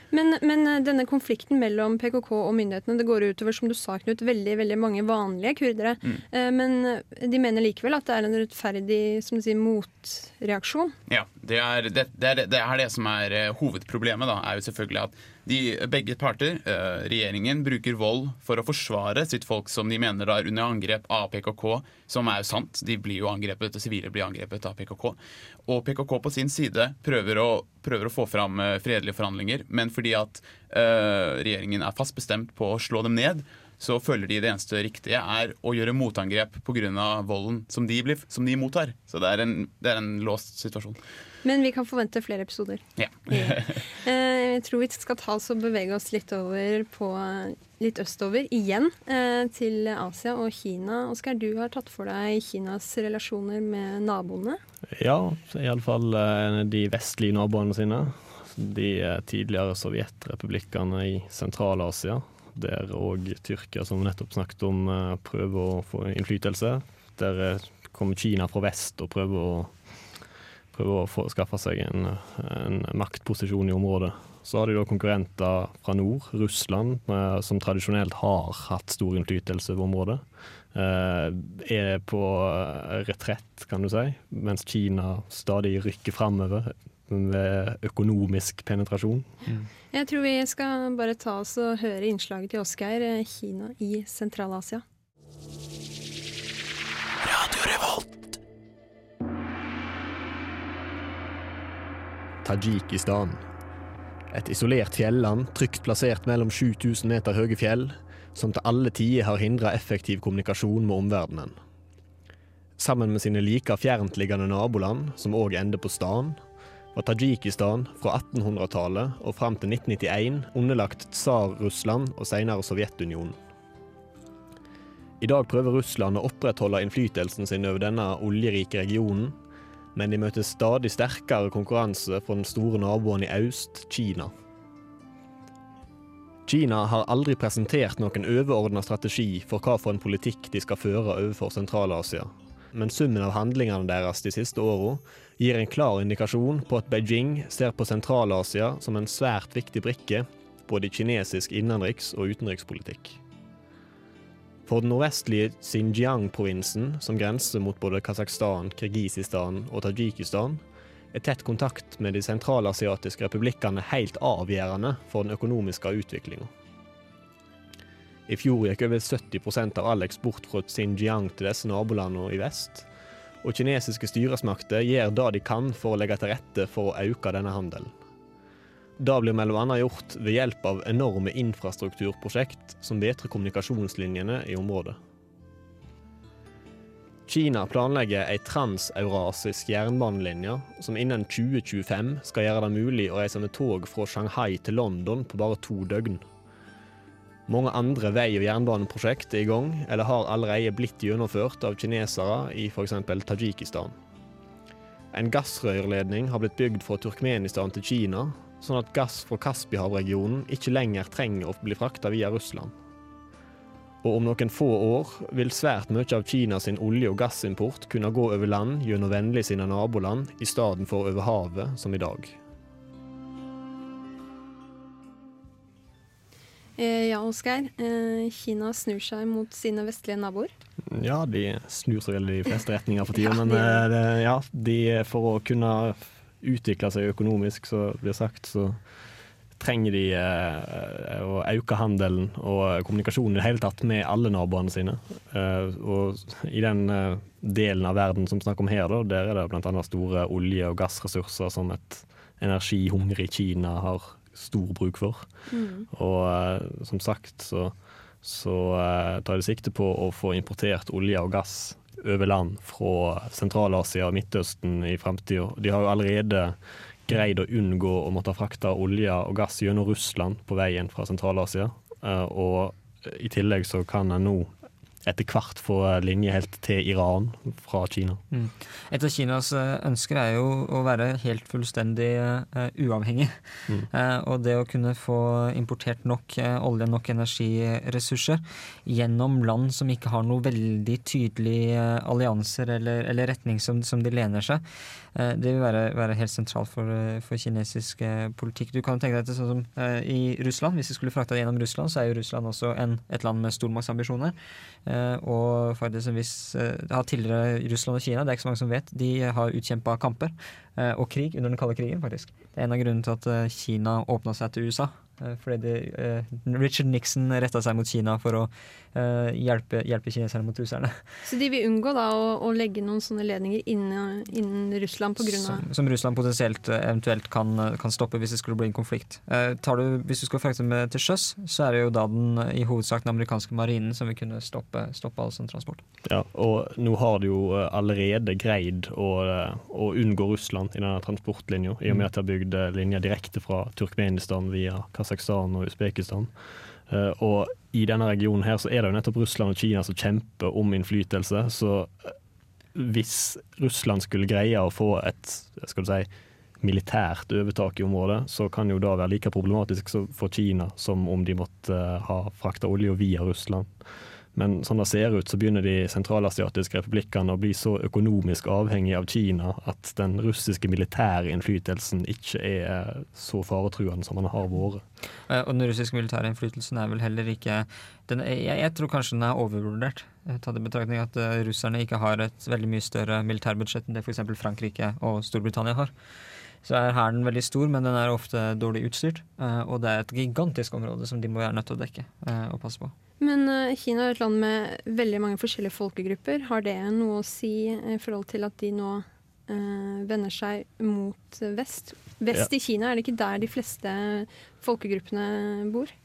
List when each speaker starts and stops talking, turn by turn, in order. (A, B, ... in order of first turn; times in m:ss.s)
0:00.1-0:11.0 A
0:11.1-0:41.0 B
0:41.4-0:54.6 A
0:43.0-0:43.8 B
0:54.9-1:09.7 C
1:10.7-1:29.3 C
1:29.9-1:34.8 A
1:42.4-1:43.4 C
1:44.3-1:51.6 C
1:52.8-1:56.4 C
1:56.9-2:03.4 C
2:05.2-2:09.4 C
2:10.0-2:14.3 C
2:16.5-2:33.2 C
2:34.7-2:46.5 C
2:48.3-2:52.9 C
2:53.4-2:57.9 C
2:59.0-3:05.0 C
3:07.3-3:16.2 C
3:17.5-3:24.0 C
3:25.1-3:32.7 C
3:34.0-3:42.4 C
3:46.8-3:50.5 A
3:50.9-3:58.8 C
3:53.2-3:53.8 A
3:59.6-4:15.3 C
4:15.5-4:15.9 A
4:15.9-4:34.5 C
4:35.0-4:38.2 C
4:38.3-4:54.6 D
4:55.2-5:04.4 D
5:04.9-5:21.0 D
5:21.2-5:25.6 A
5:25.2-5:35.8 D
5:36.0-5:46.3 C
5:46.9-5:52.2 C
5:52.8-5:56.1 C
5:56.6-6:03.7 C
6:04.4-6:14.8 C
6:15.3-6:25.9 D
6:26.6-6:32.9 D
6:33.2-6:45.9 A